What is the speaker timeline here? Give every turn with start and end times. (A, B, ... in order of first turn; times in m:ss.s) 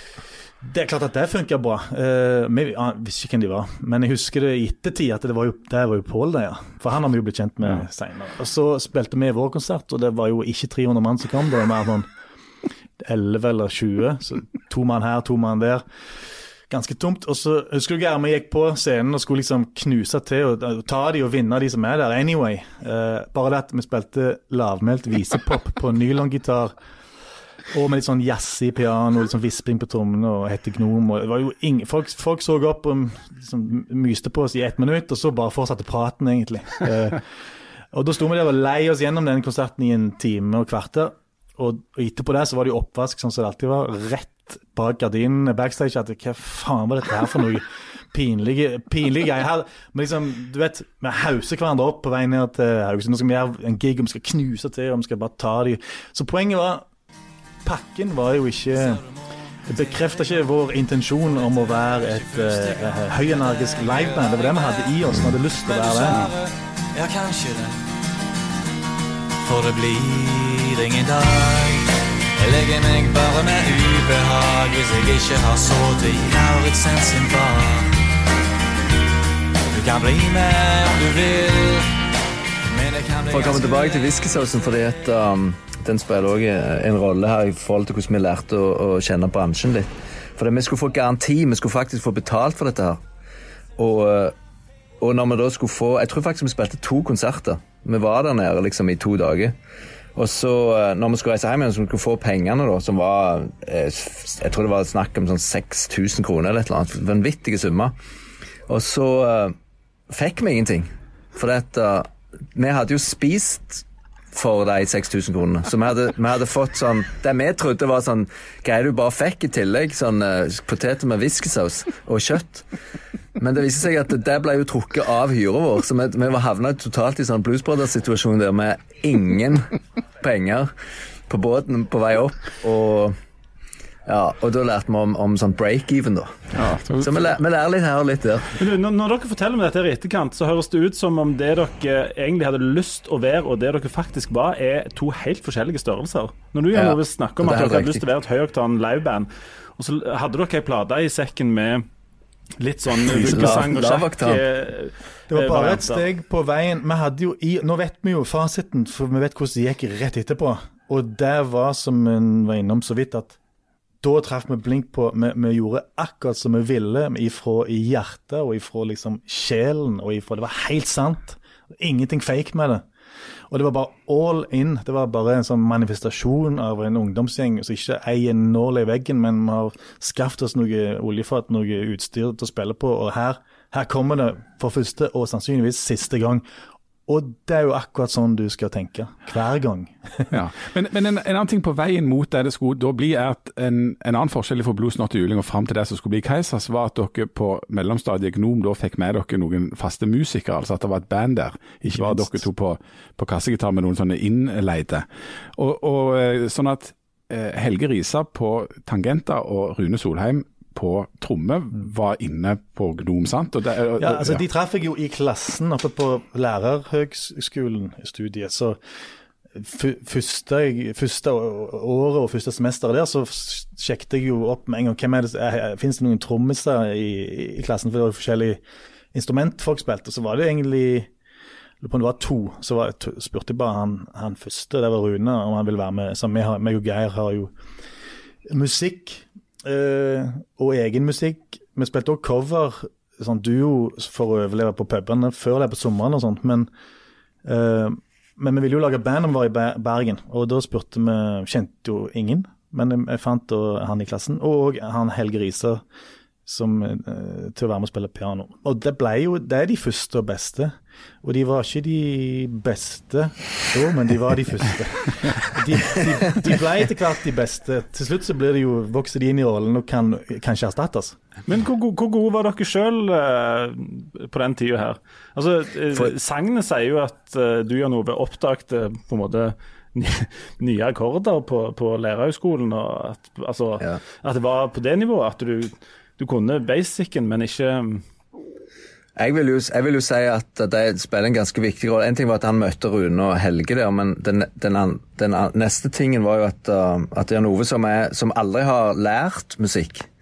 0:00.6-0:12.1 A
0:13.0-0:15.8 A
0:16.7-0:26.7 A
0:27.7-0:37.2 A
0:37.9-0:56.9 A
0:57.6-0:59.0 A
0:59.7-1:06.2 A
0:59.7-1:00.4 B
1:01.3-1:07.9 B
1:09.4-1:18.0 B
1:19.7-1:22.0 B
1:22.7-1:24.9 B
1:23.3-1:33.0 C
1:33.8-1:34.3 C
1:35.0-1:39.5 C
1:40.2-1:47.9 C
1:48.7-1:49.5 C
1:50.1-2:02.7 C
2:03.4-2:10.7 C
2:11.3-2:13.2 C
2:14.0-2:16.3 C
2:16.5-2:17.4 D
2:17.0-2:18.6 C
2:18.5-2:31.8 E
2:26.7-2:28.0 C
2:32.6-2:36.0 E
2:33.0-2:34.4 C
2:35.3-2:43.4 A
2:44.0-2:52.8 A
2:53.5-3:06.4 A
3:07.1-3:10.3 A
3:10.3-3:34.4 D
3:22.0-3:22.3 A
3:34.0-3:38.8 A
3:39.5-3:48.6 A
3:49.1-3:51.1 A
3:51.8-3:57.5 A
3:58.4-4:06.7 A
4:07.4-4:15.8 A
4:16.4-4:31.2 A
4:31.5-4:48.0 E
4:49.2-5:00.1 C